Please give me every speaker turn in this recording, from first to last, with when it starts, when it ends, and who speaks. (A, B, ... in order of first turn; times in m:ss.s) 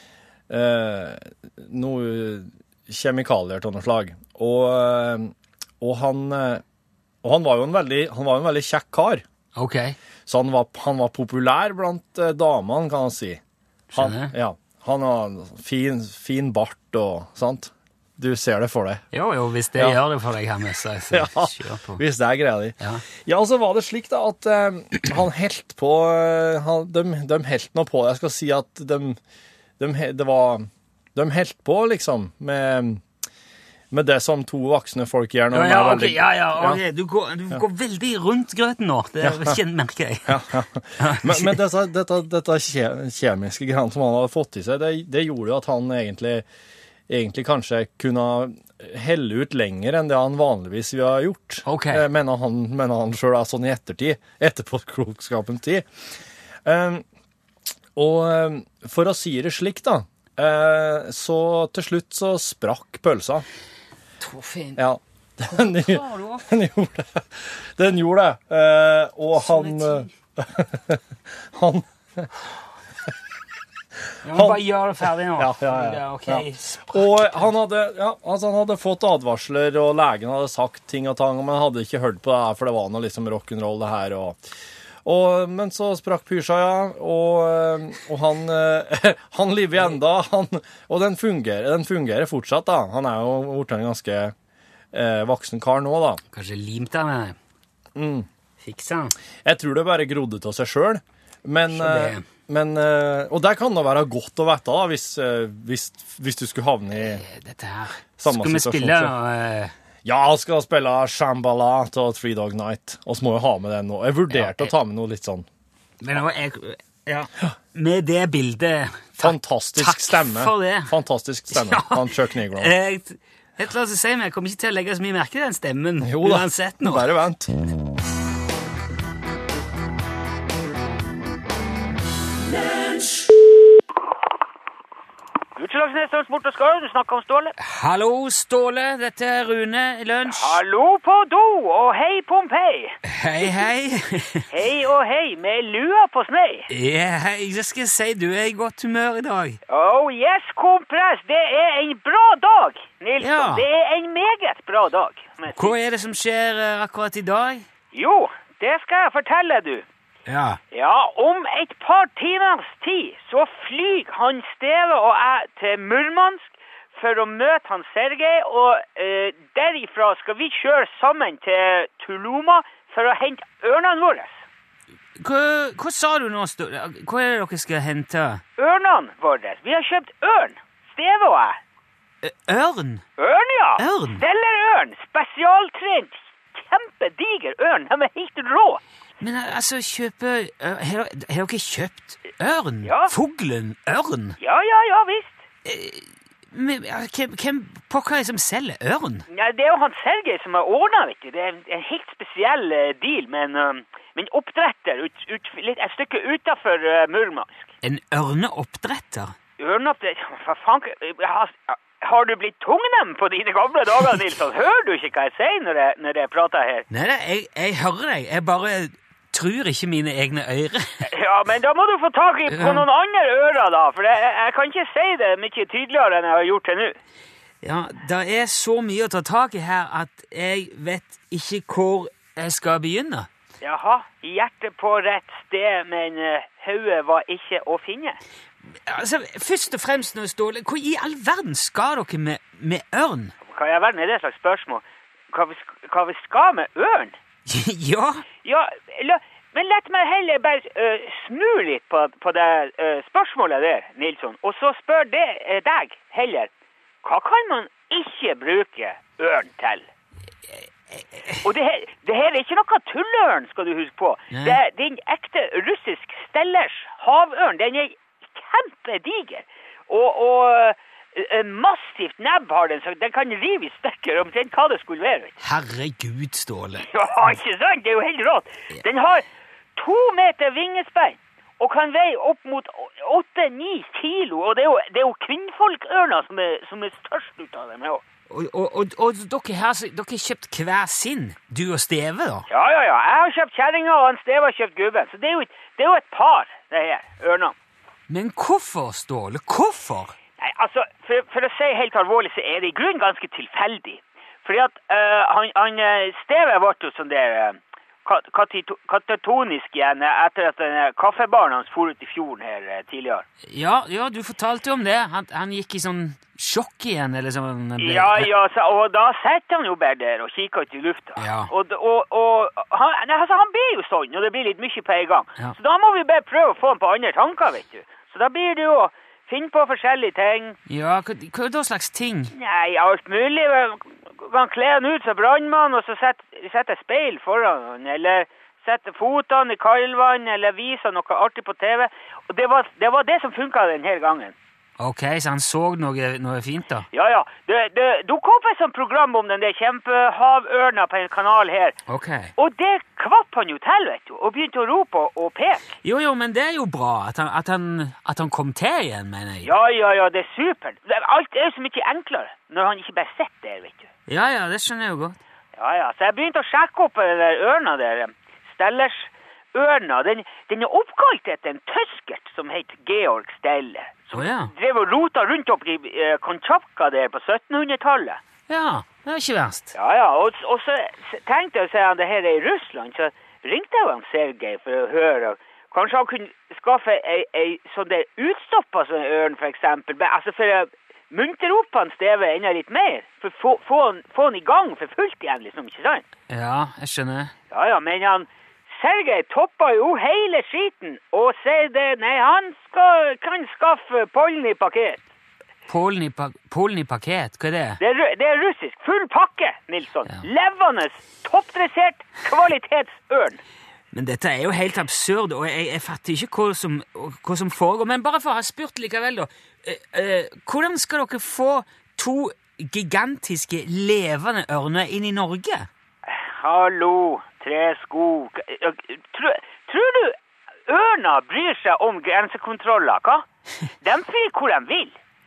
0:00.5-0:06.6 A
0:07.2-0:09.2 A
0:09.6-0:10.0 B
0:10.3-0:13.4 A
0:13.9-0:14.3 B
0:13.9-0:19.0 A
0:19.1-0:22.0 B
0:21.1-0:29.2 A
0:29.8-0:33.0 A
0:33.9-0:36.8 A
0:35.5-0:40.4 B
0:39.2-0:39.6 A
0:40.2-0:46.4 A
0:41.0-0:41.6 B
0:47.1-0:55.8 A
0:51.6-0:52.1 B
0:56.6-0:57.0 A
0:58.0-1:03.4 A
1:04.2-1:04.8 B
1:04.8-1:12.3 A
1:05.5-1:06.4 B
1:09.4-1:10.1 B
1:14.2-1:17.5 B
1:14.3-1:14.6 A
1:15.4-1:24.4 A
1:25.0-1:34.3 A
1:34.9-1:36.2 A
1:36.3-1:37.4 B
1:38.0-1:38.3 A
1:38.6-1:39.1 B
1:39.4-1:47.2 A
1:41.7-1:42.2 B
1:47.0-1:49.7 B
1:48.2-1:49.1 A
1:50.0-1:55.4 A
1:54.3-1:54.7 B
1:56.0-2:00.9 B
1:59.2-2:02.7 A
2:01.5-2:07.0 B
2:06.0-2:07.6 A
2:15.6-2:17.5 C
2:17.6-2:20.6 B
2:20.2-2:23.6 C
2:23.0-2:24.4 B
2:24.5-2:26.7 C
2:26.7-2:29.6 B
2:29.7-2:35.7 C
2:33.2-2:33.6 B
2:35.5-2:37.6 B
2:37.9-2:39.8 C
2:40.3-2:40.6 B
2:40.7-2:54.3 C
2:55.2-2:58.4 B
2:58.6-3:01.6 C
3:02.2-3:03.0 B
3:03.2-3:08.8 C
3:03.8-3:04.2 B
3:09.2-3:14.4 B
3:12.8-3:13.1 C
3:14.4-3:15.4 C
3:15.6-3:19.2 B
3:19.3-3:27.7 C
3:27.8-3:29.3 B
3:29.6-3:36.8 C
3:36.9-3:41.0 B
3:41.1-3:47.0 C
3:42.5-3:42.8 B
3:47.6-3:53.3 B
3:53.6-3:58.2 C
3:58.8-4:03.3 B
4:03.4-4:07.2 C
4:07.5-4:08.2 B
4:08.4-4:16.5 C
4:17.0-4:19.8 C
4:21.4-4:35.4 C
4:24.3-4:24.6 B
4:35.4-4:36.9 B
4:36.8-4:39.2 C
4:39.8-4:48.0 C
4:48.3-4:52.4 B
4:52.5-4:57.5 C
4:58.1-5:00.1 B
5:00.4-5:13.2 C
5:13.5-5:18.3 B
5:17.8-5:30.6 C
5:21.2-5:21.5 B
5:30.7-5:32.3 B
5:32.3-5:44.3 C
5:44.8-5:46.8 B
5:46.9-5:51.8 C
5:51.9-5:52.3 B
5:52.4-5:55.7 C
5:55.8-5:59.5 B
5:59.4-6:03.9 C
6:04.1-6:05.2 B
6:05.6-6:18.2 C
6:14.1-6:14.5 B
6:18.5-6:19.7 B
6:19.7-6:36.0 C
6:36.3-6:37.3 B
6:37.5-6:45.0 C
6:45.7-6:47.8 B
6:47.8-6:53.4 C
6:53.9-7:05.7 B
7:06.0-7:10.2 C
7:10.7-7:13.2 C
7:13.8-7:15.0 C